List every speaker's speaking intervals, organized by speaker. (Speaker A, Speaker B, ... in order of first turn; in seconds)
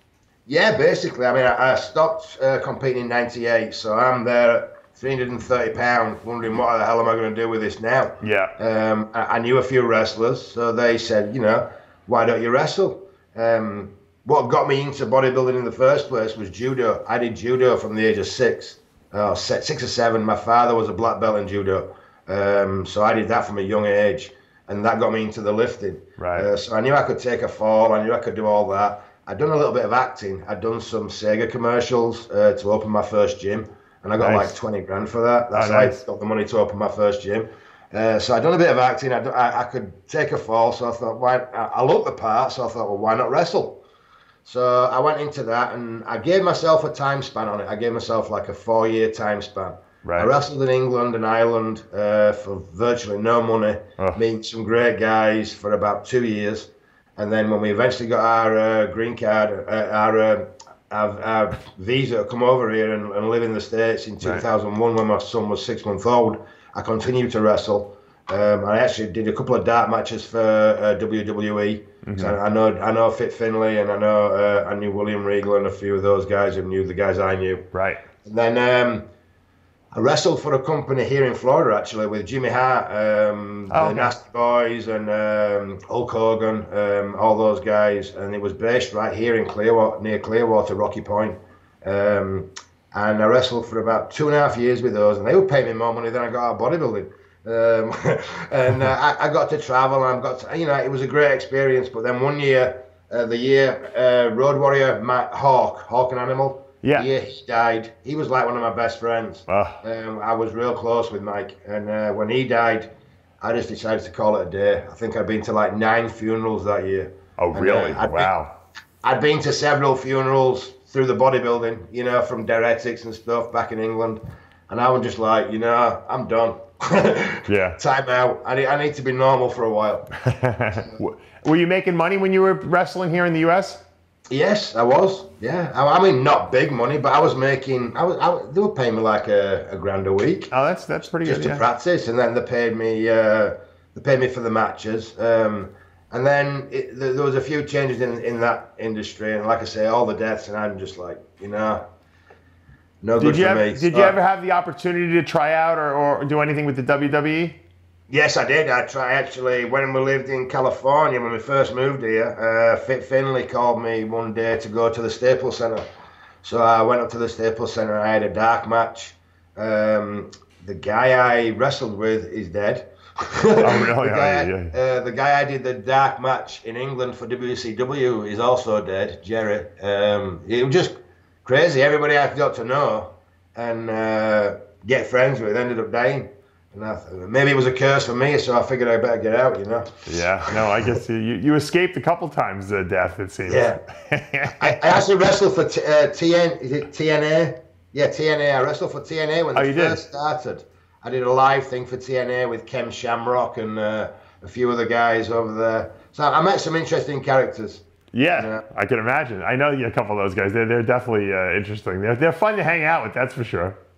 Speaker A: 0.5-43.8, 44.4-77.6, 78.2-79.0, 79.9-112.9, 113.4-118.3, 119.0-130.1, 134.3-140.5, 141.2-151.8, 153.0-154.2, 158.1-165.8, 166.4-180.9, 181.4-189.9, 190.4-190.9, 193.4-193.8, 194.6-207.8, 208.3-208.6
Speaker B: 8.2-8.5, 26.2-26.5, 34.2-34.5, 35.5-36.0, 50.0-50.3, 72.0-72.4, 77.7-78.0, 83.7-84.1, 106.8-107.1, 109.5-109.8, 117.4-118.5, 127.5-127.8, 130.2-133.8, 140.5-141.6, 153.2-157.6, 173.6-174.7, 190.1-195.0, 199.5-200.0, 208.1-213.8